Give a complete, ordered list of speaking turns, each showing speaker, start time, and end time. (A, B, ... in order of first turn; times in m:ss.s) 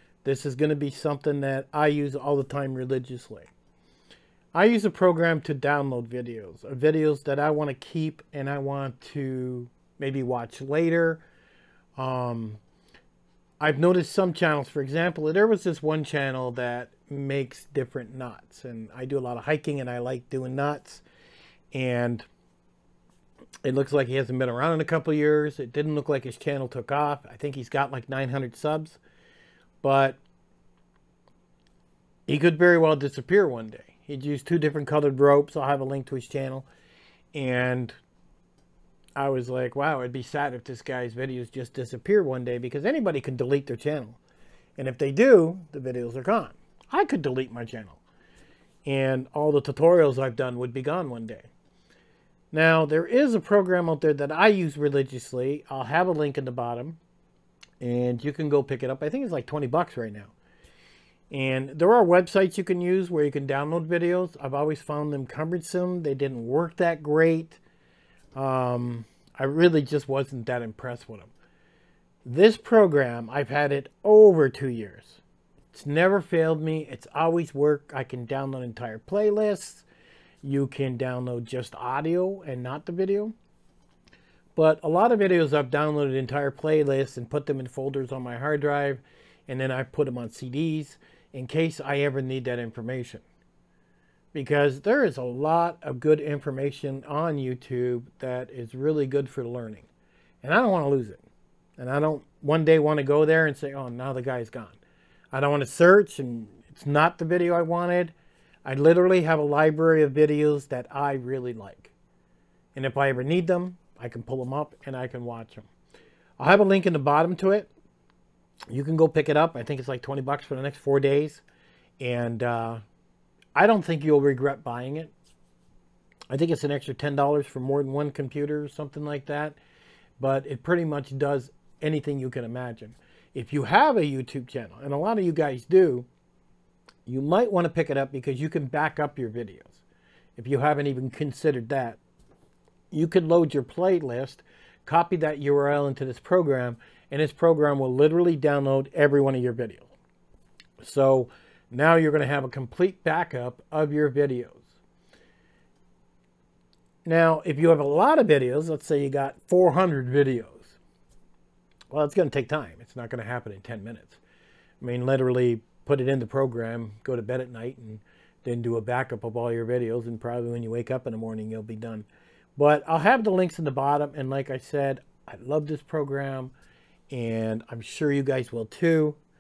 0:00.2-0:03.5 A
0:04.5-0:11.2 A
0:12.0-0:12.6 A
0:13.6-0:21.0 A
0:21.7-0:22.2 A
0:23.6-0:29.0 A
0:29.8-0:30.2 A
0:32.3-0:36.7 A
0:37.3-0:37.9 A
0:39.2-0:44.2 A
0:44.8-0:48.0 A
0:48.8-0:51.5 A
0:52.5-0:57.0 A
0:57.8-1:00.3 A
1:01.3-1:07.6 A
1:08.3-1:11.3 A
1:12.2-1:15.2 A
1:15.7-1:19.9 A
1:20.4-1:23.3 A
1:24.5-1:33.2 A
1:34.3-1:39.9 A
1:40.4-1:41.2 A
1:41.8-1:44.8 A
1:45.3-1:48.1 A
1:48.6-1:51.9 A
1:52.7-1:55.7 A
1:56.4-1:57.7 A
1:58.7-2:01.4 A
2:02.0-2:02.8 A
2:03.6-2:05.1 A
2:06.3-2:09.6 A
2:10.2-2:16.1 A
2:17.0-2:19.8 A
2:20.4-2:22.0 A
2:22.9-2:29.9 A
2:30.8-2:34.7 A
2:37.0-2:40.8 A
2:41.9-2:44.2 A
2:44.8-2:56.5 A
2:57.1-2:59.2 A